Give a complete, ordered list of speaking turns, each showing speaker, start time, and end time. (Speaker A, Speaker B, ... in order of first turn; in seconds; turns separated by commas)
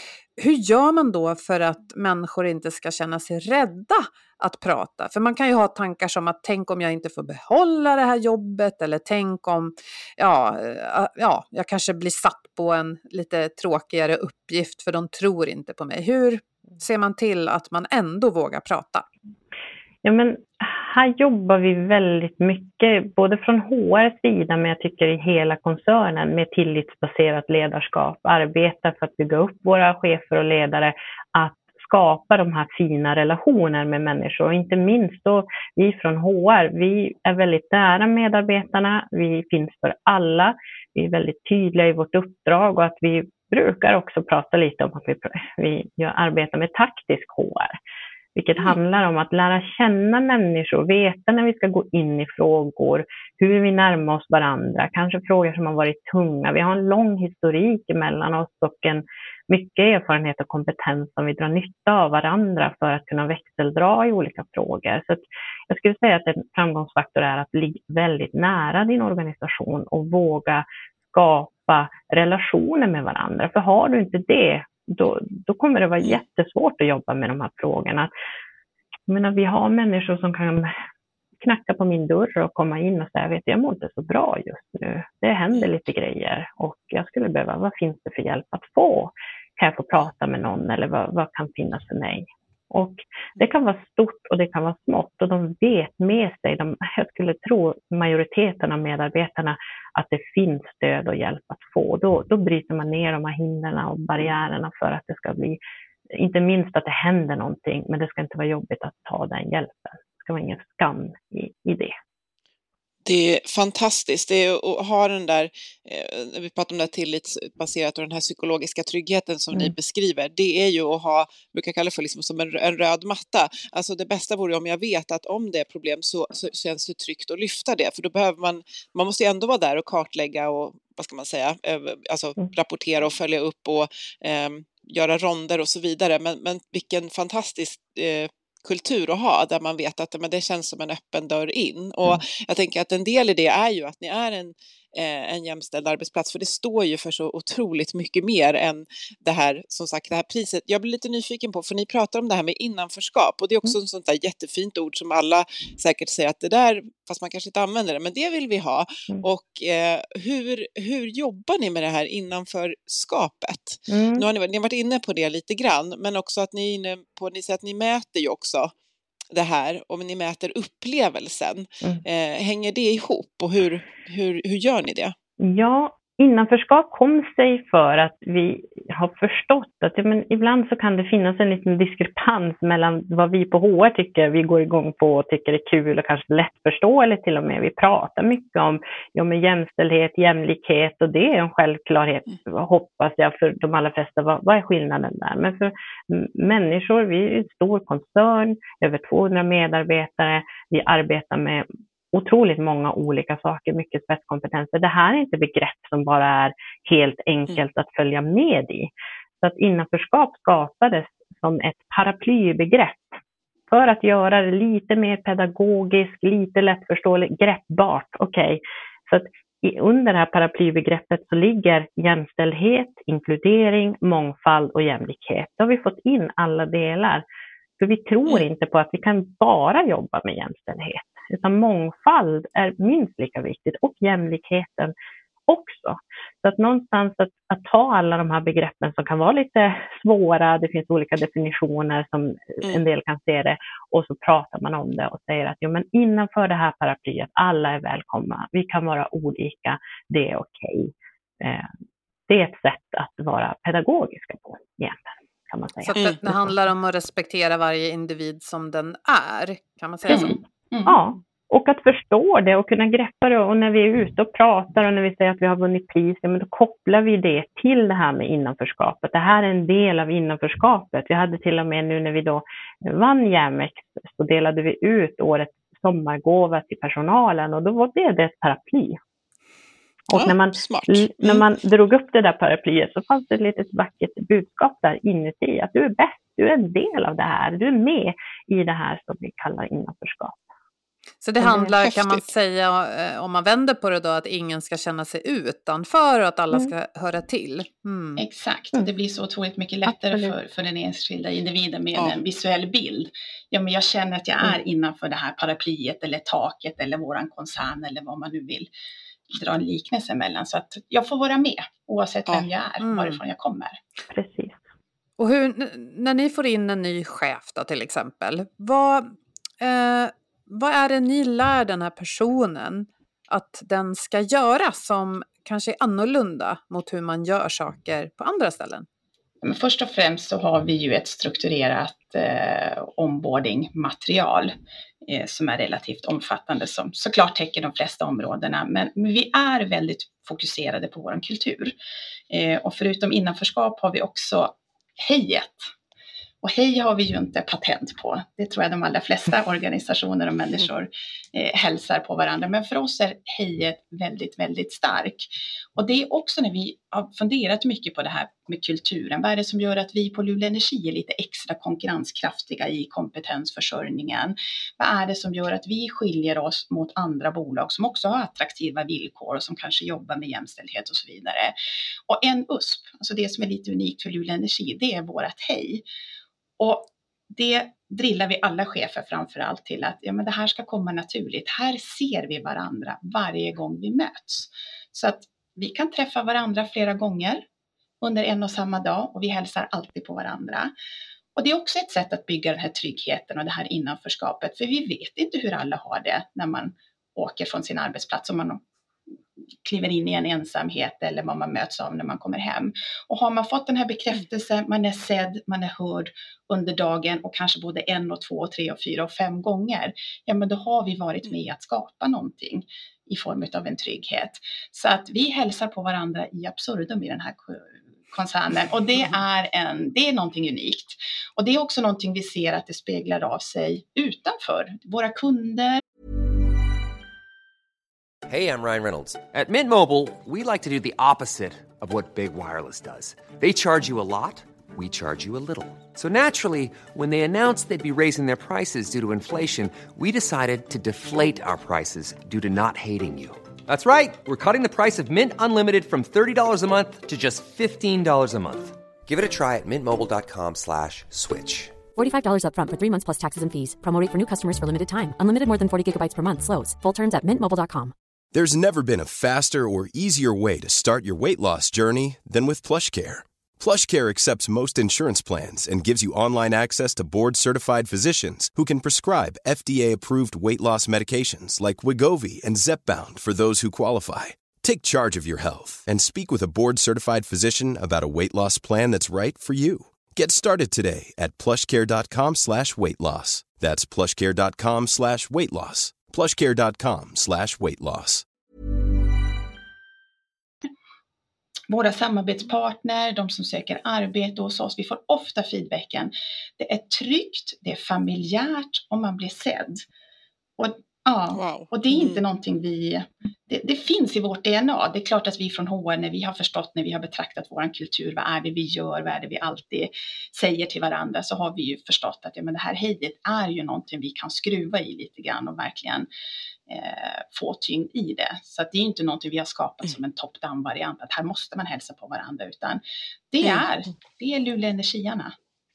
Speaker A: 0.4-19.1, Speaker B: 20.0-47.8, Speaker B: 48.4-78.1, Speaker B: 79.1-80.7, Speaker B: 81.4-105.6, Speaker B: 106.1-112.0, Speaker C: 113.0-168.7, Speaker B: 163.9-164.3, Speaker C: 169.3-175.2, Speaker B: 175.4-213.2, Speaker B: 213.7-227.2, Speaker B: 227.8-234.9, Speaker B: 235.5-251.7, Speaker B: 252.3-256.6, Speaker A: 255.8-260.4, Speaker C: 255.9-256.2, Speaker B: 260.1-279.0, Speaker D: 260.1-261.0, Speaker B: 280.1-290.4, Speaker C: 280.1-281.4, Speaker A: 291.2-298.2, Speaker C: 291.8-292.3, Speaker D: 298.2-308.7, Speaker B: 299.9-300.4, Speaker D: 309.3-313.8, Speaker A: 312.8-313.2, Speaker B: 314.1-314.6, Speaker A: 315.2-328.9, Speaker D: 329.4-334.5, Speaker D: 335.1-341.7, Speaker D: 342.3-345.7, Speaker D: 346.4-371.5, Speaker D: 372.1-375.8, Speaker D: 376.6-387.4, Speaker D: 388.0-390.7, Speaker D: 391.4-398.6, Speaker D: 399.6-425.8, Speaker E: 428.3-451.8, Speaker F: 452.0-457.9, Speaker G: 458.3-488.2, Speaker D: 491.7-499.8, Speaker D: 500.6-516.1, Speaker C: 501.3-502.2, Speaker D: 516.7-525.4